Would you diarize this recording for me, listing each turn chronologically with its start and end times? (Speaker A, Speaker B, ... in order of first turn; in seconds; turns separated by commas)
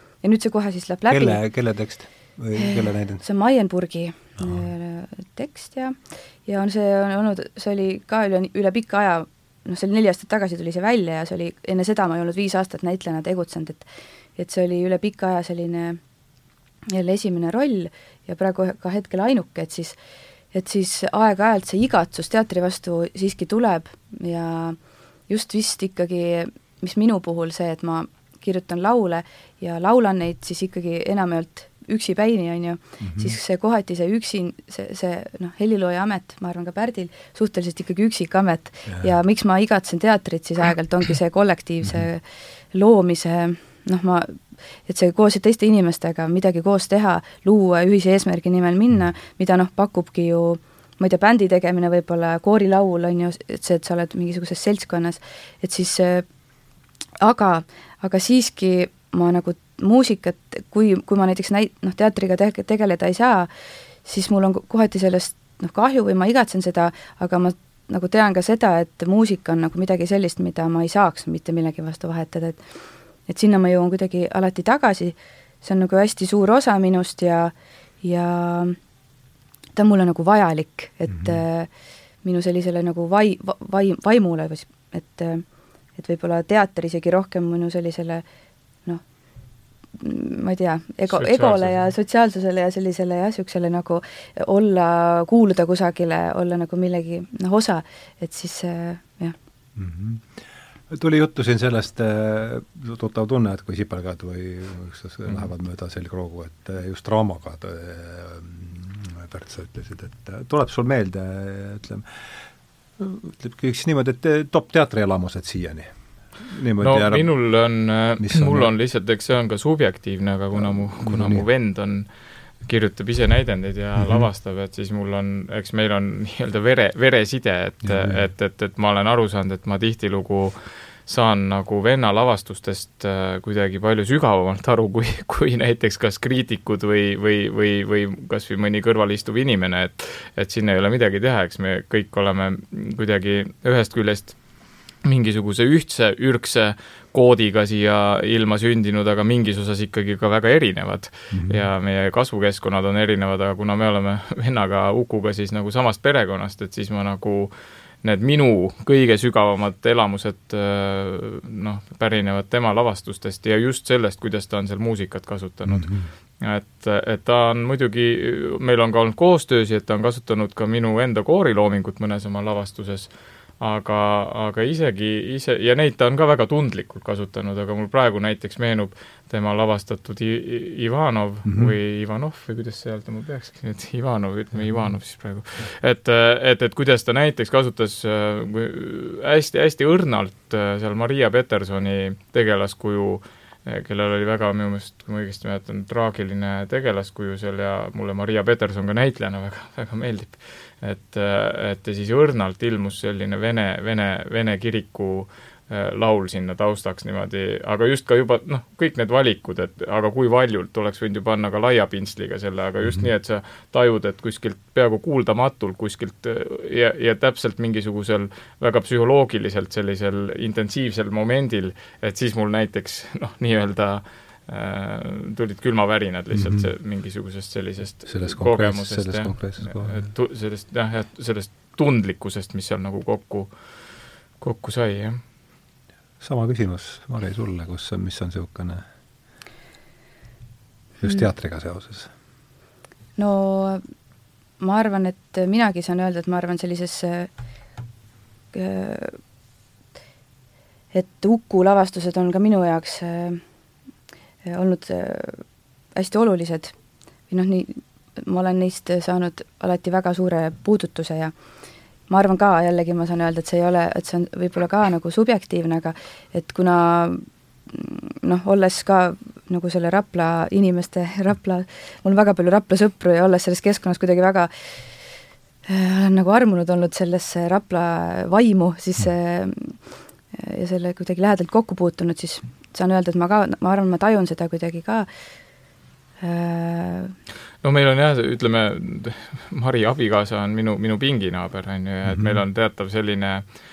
Speaker A: 0.2-1.4, Speaker B: 1.1-3.2, Speaker A: 2.5-16.0, Speaker B: 4.4-4.7, Speaker A: 16.9-20.0, Speaker A: 20.5-56.3, Speaker B: 33.0-33.4, Speaker B: 38.9-39.1, Speaker A: 57.2-63.5, Speaker A: 64.0-72.6, Speaker A: 73.3-78.8, Speaker A: 79.7-81.7, Speaker B: 81.1-81.4, Speaker A: 82.2-88.2, Speaker A: 90.0-99.3, Speaker C: 91.1-91.9, Speaker B: 99.8-112.5, Speaker B: 113.0-117.3, Speaker C: 116.8-122.1, Speaker B: 118.2-118.7, Speaker B: 120.5-121.5, Speaker C: 122.7-144.4, Speaker B: 124.0-124.2, Speaker B: 127.8-128.2, Speaker C: 145.0-233.5, Speaker B: 151.3-151.7, Speaker B: 165.7-166.1, Speaker B: 181.4-181.7, Speaker B: 212.8-213.1, Speaker B: 226.3-226.7, Speaker B: 228.1-230.1, Speaker C: 234.4-235.2, Speaker B: 236.2-238.8, Speaker B: 241.0-242.1, Speaker A: 243.2-243.8, Speaker A: 244.6-247.3, Speaker A: 248.5-249.2, Speaker A: 250.9-253.4, Speaker A: 254.4-256.7, Speaker A: 257.3-261.3, Speaker A: 262.1-274.9, Speaker A: 275.6-285.1, Speaker A: 286.2-287.1, Speaker C: 287.6-293.4, Speaker B: 292.1-292.4